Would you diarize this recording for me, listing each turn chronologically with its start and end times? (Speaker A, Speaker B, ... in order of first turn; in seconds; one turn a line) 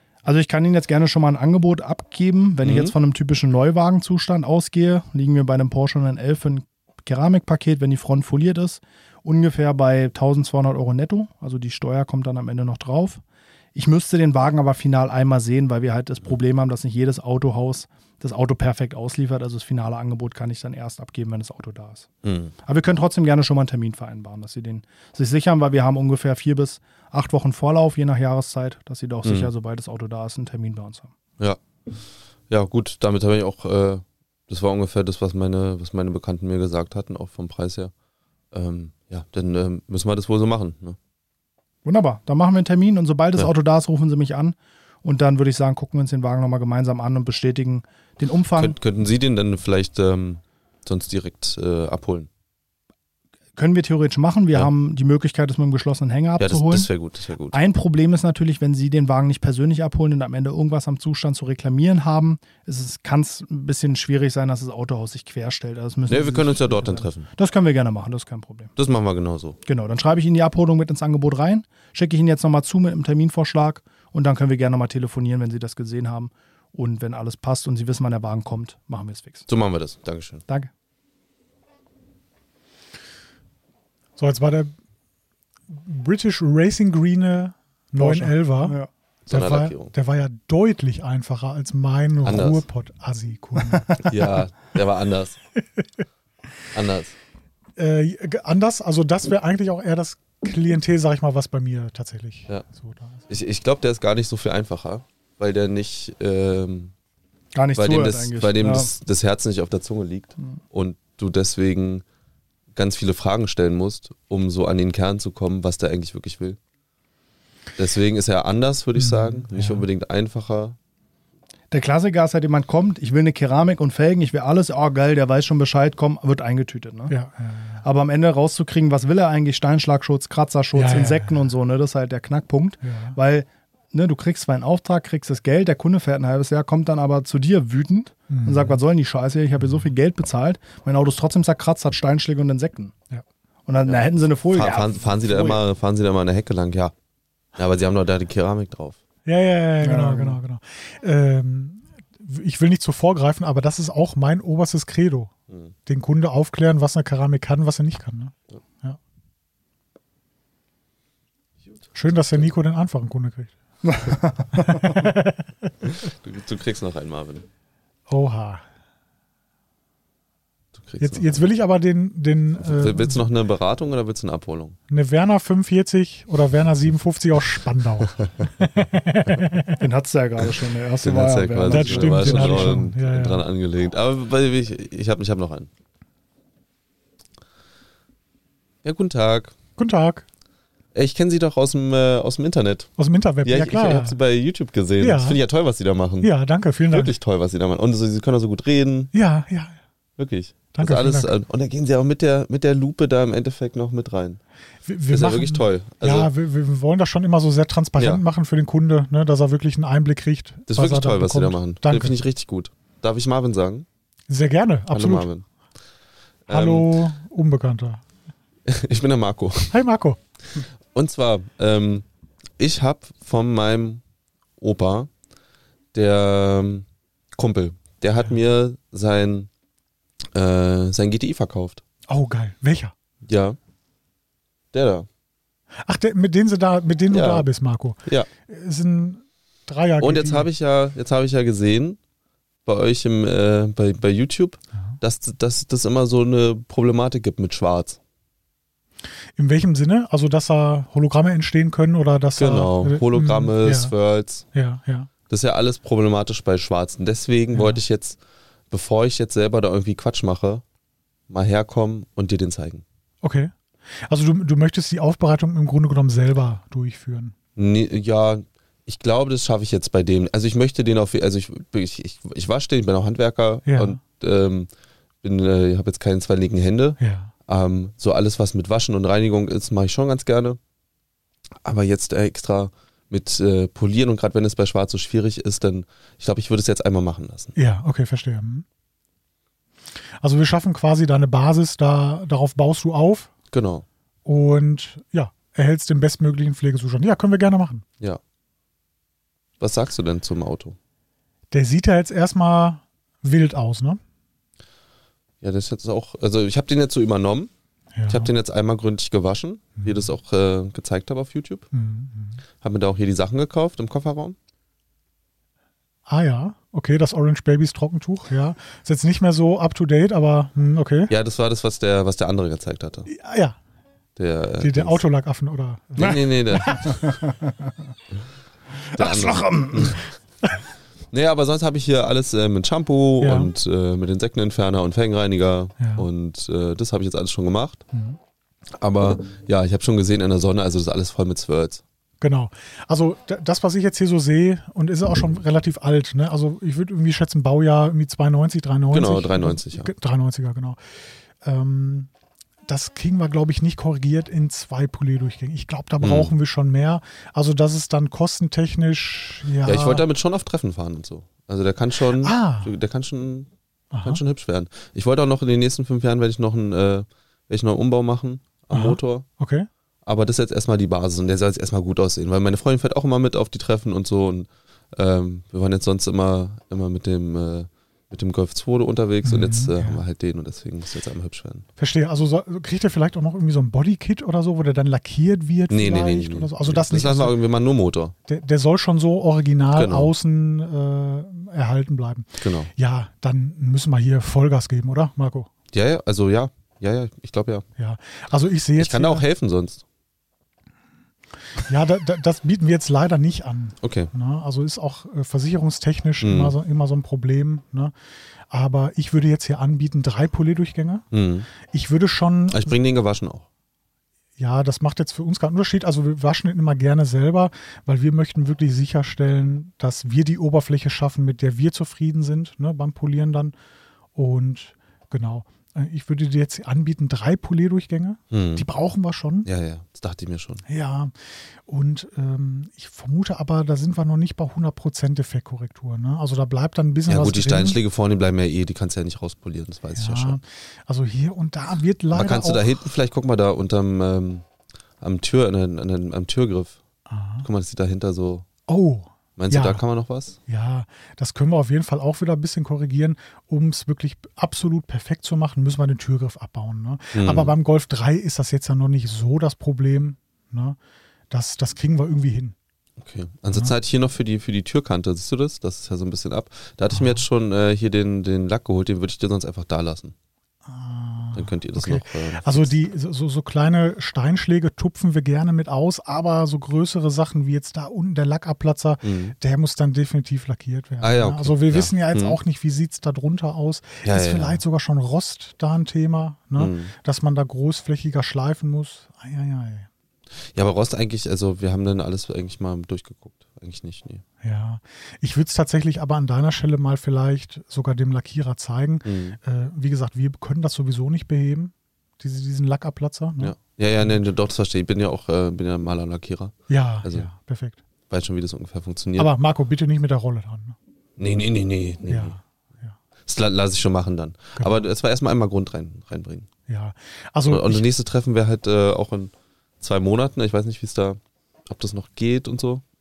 Speaker A: 0.2-13.2
Speaker B: 2.6-2.9
Speaker A: 13.7-22.1
Speaker B: 22.2-22.5
Speaker A: 22.6-31.1
Speaker B: 29.2-29.5
Speaker B: 31.4-31.9
Speaker B: 32.5-37.9
Speaker B: 38.5-41.0
Speaker A: 41.8-48.8
Speaker B: 48.5-52.3
Speaker A: 53.5-56.9
Speaker B: 56.4-57.6
Speaker A: 57.5-68.7
Speaker B: 66.1-67.3
Speaker B: 68.8-69.6
Speaker A: 69.6-79.5
Speaker B: 79.5-80.4
Speaker C: 84.2-84.7
Speaker C: 85.7-94.1
Speaker A: 88.0-88.9
Speaker B: 89.2-89.9
Speaker B: 92.2-92.6
Speaker A: 93.7-94.0
Speaker B: 94.0-95.4
Speaker B: 96.7-97.1
Speaker C: 97.8-103.2
Speaker B: 103.3-106.9
Speaker A: 107.5-108.9
Speaker B: 107.8-112.0
Speaker B: 112.7-116.6
Speaker B: 117.8-120.8
Speaker C: 119.0-119.8
Speaker A: 121.7-127.1
Speaker C: 127.1-127.8
Speaker A: 127.8-142.9
Speaker C: 130.7-131.4
Speaker C: 132.8-133.2
Speaker C: 138.3-138.8
Speaker A: 143.7-145.6
Speaker B: 144.5-146.9
Speaker B: 147.6-149.0
Speaker C: 149.2-155.3
Speaker A: 149.8-150.4
Speaker C: 155.8-159.0
Speaker C: 161.9-163.5
Speaker A: 163.8-165.0
Speaker C: 164.1-165.7
Speaker B: 165.8-167.4
Speaker C: 168.1-168.6
Speaker B: 170.7-171.4
Speaker C: 171.0-173.2
Speaker B: 172.6-174.8
Speaker C: 174.9-179.8
Speaker A: 179.8-182.8
Speaker B: 181.0-185.7
Speaker C: 181.7-183.4
Speaker B: 188.8-189.5
Speaker C: 189.8-190.2
Speaker B: 190.9-192.9
Speaker C: 193.0-194.2
Speaker B: 193.4-196.3
Speaker C: 195.0-195.4
Speaker C: 196.2-197.1
Speaker B: 196.9-199.1
Speaker C: 199.1-199.7
Speaker B: 200.2-204.4
Speaker C: 200.7-201.3
Speaker C: 204.8-212.2
Speaker B: 205.1-206.3
Speaker B: 207.9-208.2
Speaker B: 210.7-213.8
Speaker C: 214.3-215.3
Speaker B: 214.9-215.4
Speaker B: 216.5-216.9
Speaker C: 216.5-218.0
Speaker B: 218.7-219.8
Speaker C: 219.7-220.2
Speaker B: 220.9-222.0
Speaker B: 222.6-224.0
Speaker B: 224.6-225.1
Speaker B: 225.9-229.5
Speaker B: 230.3-231.8
Speaker C: 232.1-232.9
Speaker B: 233.2-233.6
Speaker B: 234.7-235.1
Speaker C: 235.8-240.5
Speaker B: 237.1-237.5
Speaker B: 240.0-242.0
Speaker B: 242.6-248.0
Speaker C: 249.4-253.9
Speaker B: 252.3-254.4
Speaker C: 254.5-255.1
Speaker B: 255.3-258.2
Speaker C: 257.5-257.8
Speaker B: 258.7-260.6
Speaker B: 261.3-262.8
Speaker C: 263.2-263.5
Speaker C: 264.1-267.3
Speaker B: 267.6-274.7
Speaker C: 273.6-274.0
Speaker B: 275.2-280.6
Speaker C: 277.0-277.3
Speaker B: 281.6-287.5
Speaker C: 287.6-288.6
Speaker C: 290.2-293.3
Speaker B: 293.5-293.8
Speaker C: 294.2-297.8
Speaker B: 299.6-300.8
Speaker C: 301.5-304.0
Speaker B: 305.4-307.5
Speaker C: 307.9-308.3
Speaker B: 308.1-311.6
Speaker C: 311.7-312.4
Speaker B: 312.6-314.4
Speaker C: 316.1-321.1
Speaker B: 321.1-323.1
Speaker C: 323.1-323.6
Speaker B: 324.2-325.0
Speaker C: 324.6-326.8
Speaker B: 326.0-327.1
Speaker A: 326.1-327.7
Speaker A: 328.9-330.0
Speaker B: 328.9-330.0
Speaker B: 331.1-337.8
Speaker C: 333.2-333.5
Speaker C: 335.8-336.1
Speaker B: 338.7-341.8
Speaker C: 342.2-350.8
Speaker B: 348.9-349.9
Speaker C: 351.4-352.1
Speaker C: 352.7-360.0
Speaker B: 356.0-356.3
Speaker B: 359.6-363.5
Speaker C: 362.2-362.7
Speaker C: 363.9-364.2
Speaker B: 364.0-369.2
Speaker C: 368.7-369.7
Speaker B: 370.0-381.6
Speaker C: 379.2-380.0
Speaker C: 381.8-387.3
Speaker B: 385.7-388.1
Speaker C: 388.3-395.5
Speaker B: 389.7-390.1
Speaker B: 392.4-392.7
Speaker B: 395.7-397.6
Speaker C: 397.8-399.2
Speaker B: 398.8-399.8
Speaker C: 401.6-407.9
Speaker B: 403.8-404.1
Speaker B: 406.2-406.6
Speaker C: 408.5-411.1
Speaker B: 411.1-411.5
Speaker C: 411.7-412.7
Speaker B: 412.5-413.4
Speaker C: 414.4-423.5
Speaker C: 424.1-429.5
Speaker B: 428.3-428.6
Speaker B: 429.4-430.6
Speaker C: 430.7-431.1
Speaker C: 431.7-437.8
Speaker B: 437.1-440.4
Speaker C: 439.9-442.8
Speaker B: 442.1-444.4
Speaker B: 445.0-446.8
Speaker C: 447.1-447.4
Speaker B: 447.4-448.5
Speaker C: 448.7-449.8
Speaker B: 449.4-450.4
Speaker C: 450.5-460.8
Speaker B: 457.1-457.5
Speaker C: 461.3-462.5
Speaker B: 463.0-470.1
Speaker C: 466.9-467.2
Speaker C: 470.6-489.9
Speaker B: 471.3-472.7
Speaker B: 479.0-479.3
Speaker B: 481.0-482.4
Speaker B: 484.0-484.6
Speaker B: 486.6-486.9
Speaker B: 490.5-494.2
Speaker C: 494.4-504.3
Speaker B: 499.0-499.4
Speaker B: 503.4-507.3
Speaker C: 506.7-507.8
Speaker B: 508.1-509.3
Speaker C: 509.2-510.8
Speaker B: 511.2-512.4
Speaker C: 512.1-512.9
Speaker B: 513.2-516.5
Speaker C: 514.6-514.8
Speaker C: 516.7-517.8
Speaker B: 517.5-522.8